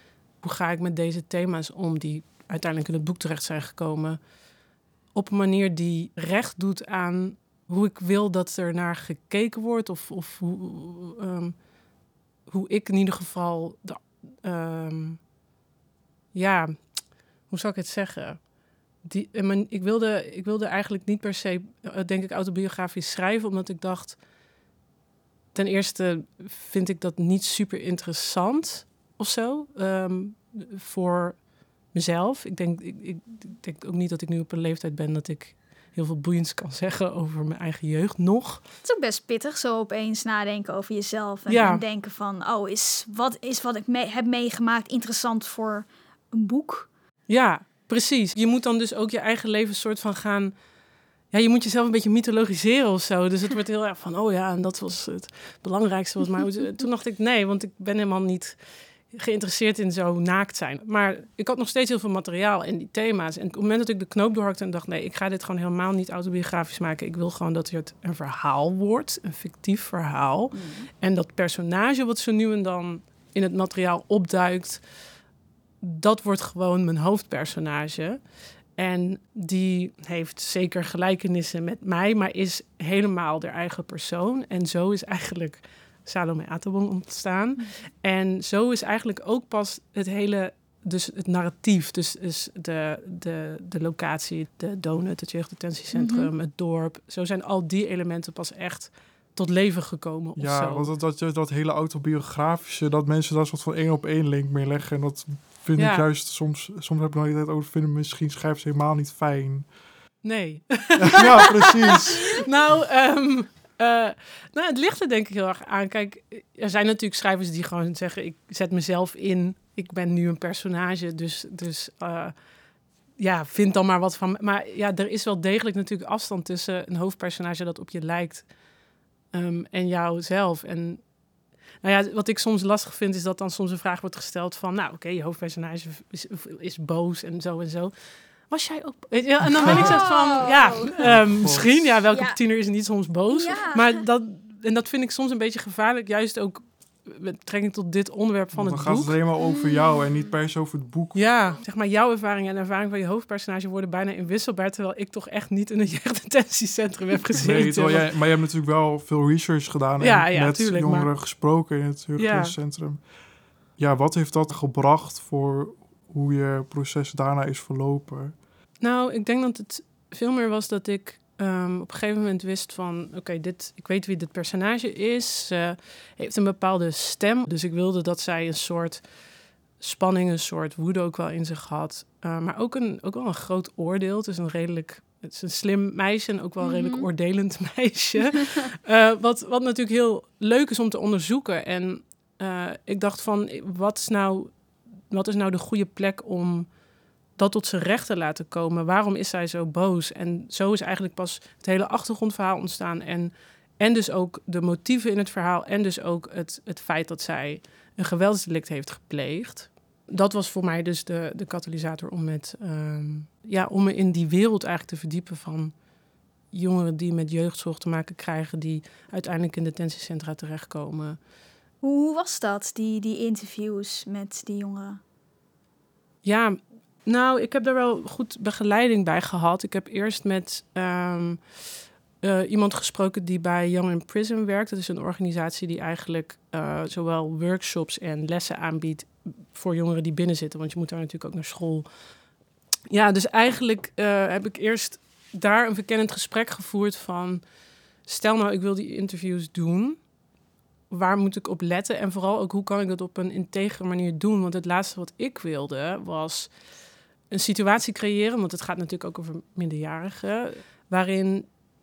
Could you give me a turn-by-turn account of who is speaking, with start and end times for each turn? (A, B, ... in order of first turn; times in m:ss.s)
0:00.4-0:04.2 A
0:05.1-0:11.6 A
0:12.5-0:15.2 A
0:16.3-0:18.5 A
0:19.0-0:24.2 A
0:25.5-0:31.4 A
0:31.9-0:38.6 A
0:38.8-0:46.9 B
0:41.5-0:41.8 A
0:47.3-0:50.5 A
0:51.3-1:15.1 A
1:10.5-1:10.9 B
1:15.8-1:40.9 A
1:35.9-1:36.3 B
1:40.4-1:49.7 C
1:45.8-1:46.0 A
1:50.2-2:02.3 A
1:51.0-1:52.4 C
2:03.2-2:08.5 A
2:09.3-2:11.0 A
2:11.8-2:17.9 A
2:18.5-2:29.1 A
2:19.7-2:21.0 B
2:21.0-2:22.0 C
2:22.1-2:22.4 B
2:23.3-2:24.0 B
2:28.5-2:31.3 C
2:29.4-2:30.0 B
2:31.1-2:38.1 A
2:37.4-2:43.0 C
2:40.0-2:41.1 A
2:42.2-2:42.5 A
2:43.8-2:48.4 C
2:48.8-2:59.1 A
2:59.8-3:14.6 A
3:06.6-3:07.1 B
3:15.1-3:16.7 A
3:17.4-3:35.7 A
3:36.5-3:41.2 A
3:41.8-3:45.0 B
3:46.2-3:51.6 A
3:52.2-4:01.9 A
4:02.9-4:07.4 A
4:08.0-4:10.0 A
4:10.9-4:16.5 A
4:17.3-4:21.5 A